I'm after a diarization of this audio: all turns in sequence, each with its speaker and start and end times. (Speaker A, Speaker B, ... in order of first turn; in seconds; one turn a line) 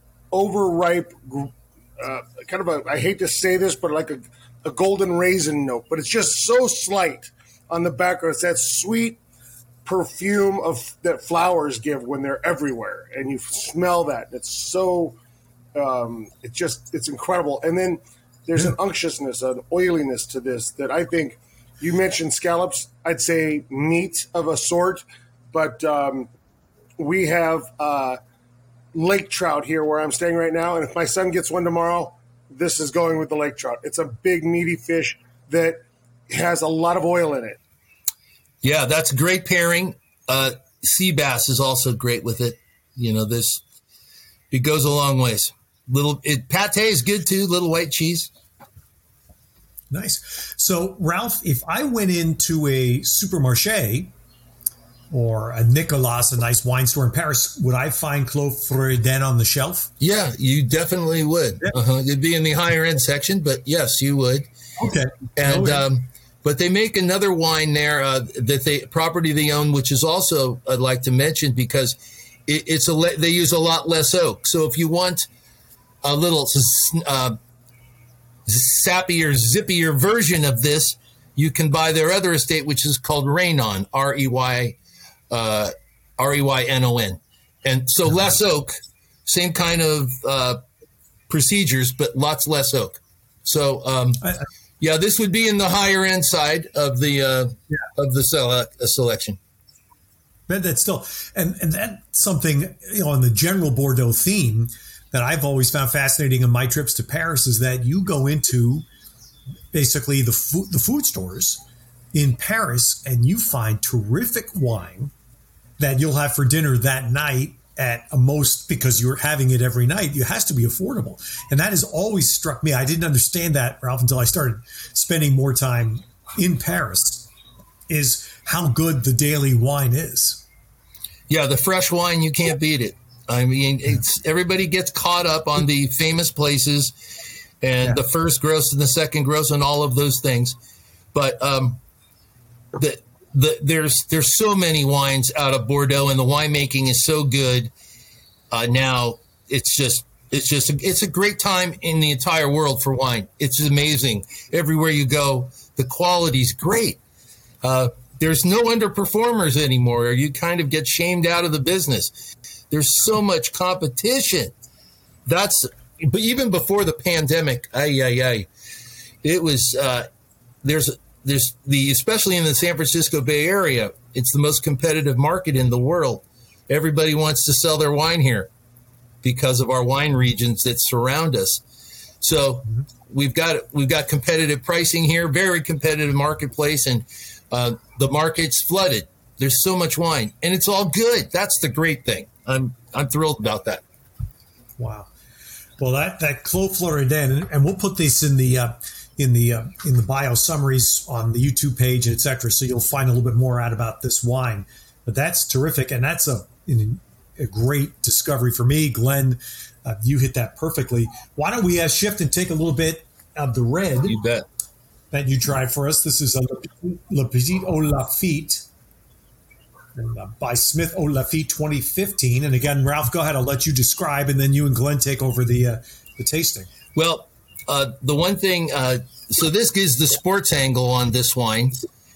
Speaker A: 0.3-9.2
Speaker A: 9.8-15.2
Speaker A: 15.7-26.3
Speaker A: 27.0-28.2
Speaker A: 28.9-37.6
Speaker B: 38.6-43.6
Speaker B: 44.5-48.3
Speaker C: 49.9-54.1
Speaker C: 55.1-59.9
Speaker B: 60.0-64.5
Speaker C: 64.8-65.8
Speaker B: 65.3-75.3
Speaker B: 76.0-77.4
Speaker B: 78.5-84.8
Speaker B: 85.3-90.6
Speaker B: 91.3-99.4
Speaker C: 100.5-108.8
Speaker C: 109.7-115.1
Speaker C: 115.8-127.3
Speaker C: 127.9-130.4
Speaker B: 131.3-136.9
Speaker B: 137.6-140.5
Speaker B: 141.1-141.8
Speaker B: 142.7-147.7
Speaker B: 148.5-157.0
Speaker B: 157.6-162.1
Speaker B: 162.7-164.5
Speaker B: 165.2-168.5
Speaker B: 169.2-170.1
Speaker B: 170.6-178.5
Speaker B: 179.2-181.6
Speaker B: 182.2-193.8
Speaker C: 194.8-195.1
Speaker C: 195.8-214.2
Speaker B: 214.1-214.4
Speaker C: 215.1-218.6
Speaker C: 219.9-226.7
Speaker B: 226.9-231.8